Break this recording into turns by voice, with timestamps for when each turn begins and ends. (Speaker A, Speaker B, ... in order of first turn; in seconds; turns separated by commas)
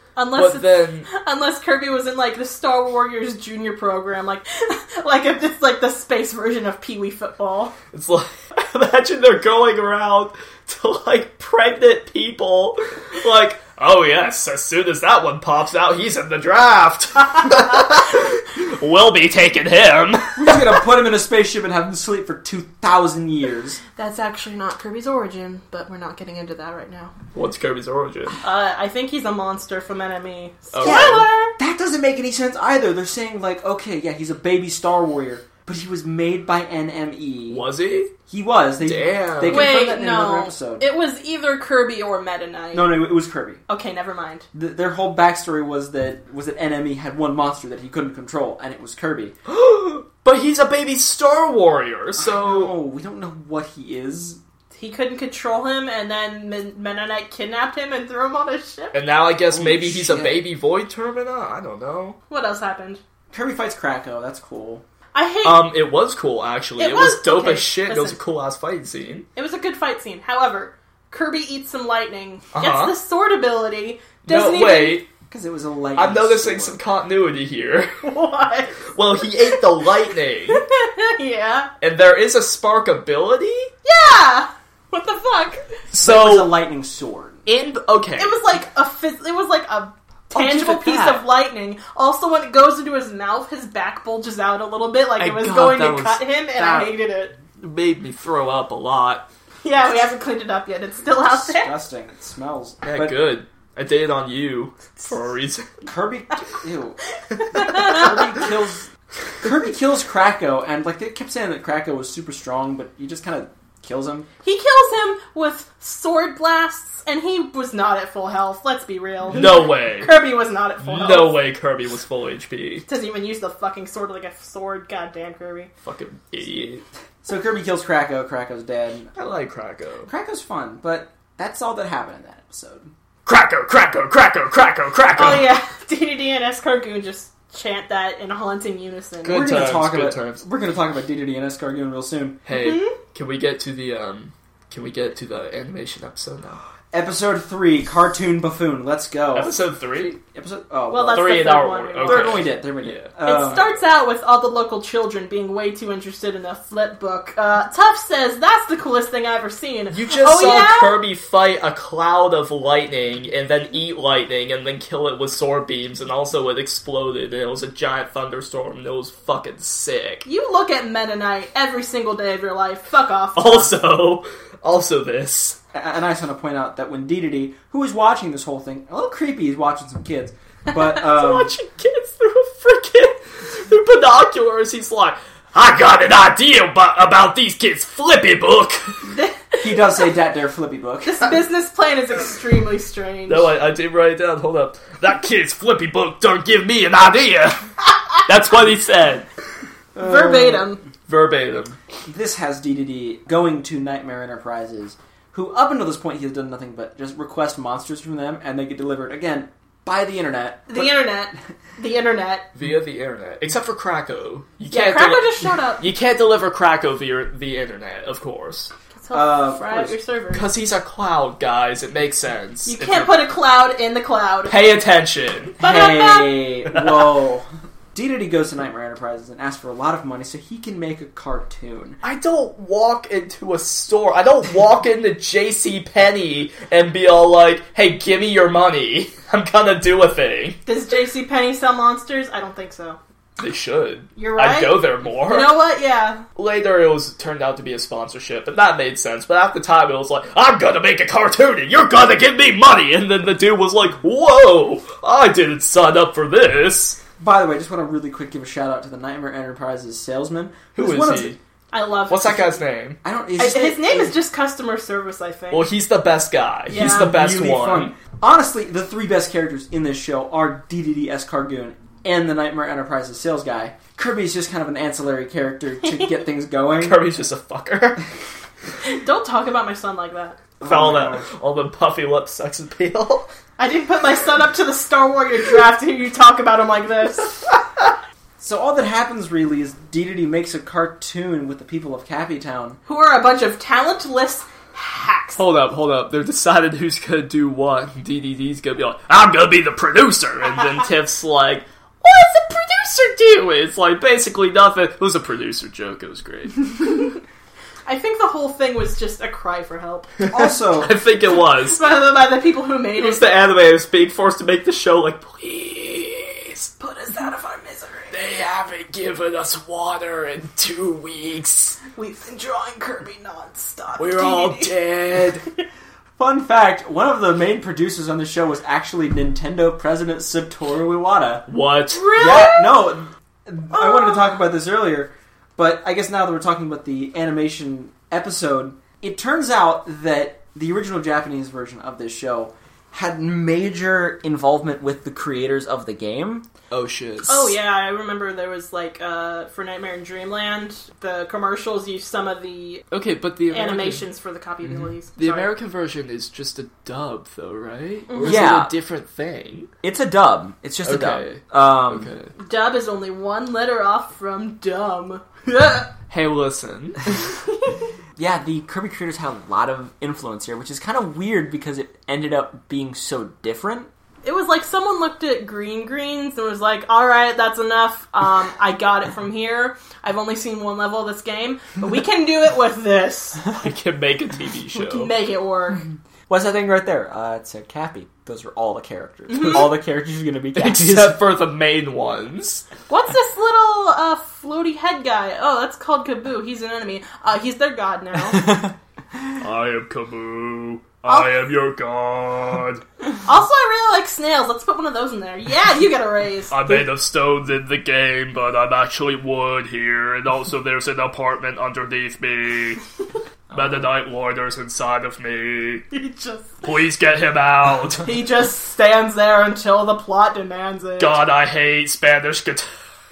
Speaker A: 0.1-7.7, Speaker B: 0.3-1.1, Speaker B: 7.9-20.6, Speaker C: 20.3-23.8, Speaker A: 23.9-27.1, Speaker B: 27.3-28.4, Speaker A: 28.4-31.5, Speaker B: 30.7-31.3, Speaker C: 30.8-37.6, Speaker B: 37.5-38.1, Speaker C: 38.3-40.9, Speaker B: 38.8-39.8, Speaker A: 39.5-42.9, Speaker C: 42.7-43.6, Speaker A: 43.7-44.5, Speaker C: 44.5-49.3, Speaker B: 49.5-52.7, Speaker C: 52.1-54.4, Speaker A: 54.7-59.0, Speaker B: 58.9-62.2, Speaker C: 59.5-60.4, Speaker A: 62.3-63.0, Speaker C: 63.3-64.8, Speaker A: 65.1-65.7, Speaker B: 65.4-69.3, Speaker A: 66.8-68.2, Speaker A: 69.3-75.0, Speaker B: 72.5-72.9, Speaker B: 74.2-75.1, Speaker C: 75.3-76.8, Speaker B: 76.0-78.0, Speaker A: 78.0-78.9, Speaker B: 78.9-80.6, Speaker A: 80.5-81.7, Speaker B: 81.8-83.7, Speaker A: 83.8-85.7, Speaker B: 85.9-86.5, Speaker C: 86.0-87.4, Speaker B: 87.5-88.4, Speaker A: 88.2-97.3, Speaker B: 90.3-91.2, Speaker B: 95.2-96.9, Speaker B: 97.6-99.3, Speaker A: 99.6-101.7, Speaker C: 101.1-103.2, Speaker B: 102.8-105.7, Speaker C: 105.8-107.0, Speaker A: 107.4-108.2, Speaker C: 107.7-108.9, Speaker C: 109.4-114.3, Speaker A: 114.4-121.4, Speaker B: 119.3-120.2, Speaker B: 120.8-122.8, Speaker A: 122.9-125.7, Speaker B: 125.8-126.8, Speaker C: 127.2-129.1, Speaker B: 129.2-130.1, Speaker C: 130.1-132.9, Speaker B: 133.2-135.5, Speaker A: 135.2-139.5, Speaker B: 139.2-140.4, Speaker C: 139.3-142.4, Speaker B: 142.4-146.6, Speaker A: 142.5-143.0, Speaker C: 146.9-149.5, Speaker B: 149.3-150.2, Speaker C: 150.3-153.8, Speaker A: 150.9-152.4, Speaker B: 151.1-153.1, Speaker A: 153.2-161.0, Speaker B: 159.9-170.2, Speaker A: 170.2-173.7, Speaker B: 173.3-175.6, Speaker C: 175.7-181.5, Speaker B: 180.9-189.0, Speaker A: 189.0-190.1, Speaker C: 189.6-191.3, Speaker A: 191.0-193.5, Speaker B: 193.3-199.3, Speaker C: 199.9-200.7, Speaker A: 200.0-200.8, Speaker B: 201.1-201.8, Speaker C: 202.0-211.1, Speaker A: 210.7-212.5, Speaker B: 212.5-218.7, Speaker A: 214.7-215.8, Speaker A: 218.9-220.5, Speaker C: 219.1-219.9, Speaker B: 220.3-223.2, Speaker A: 222.7-224.5, Speaker B: 224.5-225.6, Speaker C: 225.6-232.0, Speaker A: 225.6-226.4, Speaker B: 232.0-240.6, Speaker A: 240.7-243.0, Speaker B: 243.4-245.5, Speaker A: 244.2-246.2, Speaker B: 246.3-257.0, Speaker C: 257.2-261.4, Speaker B: 260.7-261.4, Speaker A: 261.7-262.6, Speaker B: 262.1-263.0, Speaker C: 263.0-264.1, Speaker A: 263.4-265.7, Speaker B: 265.5-267.9, Speaker A: 266.7-267.1, Speaker C: 266.7-277.0, Speaker B: 276.8-278.0, Speaker A: 278.8-280.4, Speaker B: 280.6-283.3, Speaker C: 280.6-281.2, Speaker A: 283.6-287.4, Speaker C: 288.4-292.8, Speaker A: 292.9-295.4, Speaker B: 295.4-307.0, Speaker A: 306.8-307.1, Speaker A: 307.9-310.1, Speaker B: 310.2-311.8, Speaker C: 310.3-310.9, Speaker A: 311.5-313.3, Speaker B: 313.0-316.7, Speaker A: 316.8-318.1, Speaker B: 318.1-321.8, Speaker A: 321.9-324.7, Speaker B: 324.0-325.4, Speaker C: 326.2-331.4, Speaker B: 331.5-332.0, Speaker A: 331.9-332.8, Speaker C: 332.1-346.5, Speaker A: 333.7-334.3, Speaker B: 346.7-347.6, Speaker A: 347.3-352.8, Speaker B: 352.9-354.0, Speaker A: 353.5-355.5, Speaker B: 354.6-359.7, Speaker A: 358.1-358.4, Speaker C: 358.2-358.7, Speaker C: 359.8-362.1, Speaker B: 360.8-362.3, Speaker A: 362.4-365.9, Speaker B: 366.1-367.2, Speaker A: 367.4-367.9, Speaker C: 368.1-373.9, Speaker A: 374.2-383.4, Speaker B: 383.5-385.1, Speaker A: 384.7-385.8, Speaker C: 386.3-391.2, Speaker A: 389.3-389.7, Speaker B: 390.5-392.6, Speaker A: 392.9-398.7, Speaker C: 398.4-398.7, Speaker B: 399.4-402.8, Speaker A: 401.1-401.3, Speaker A: 403.2-406.8, Speaker B: 406.5-412.8, Speaker B: 413.5-415.8, Speaker A: 415.9-416.6, Speaker B: 416.6-418.1, Speaker A: 418.0-421.2, Speaker B: 421.0-422.6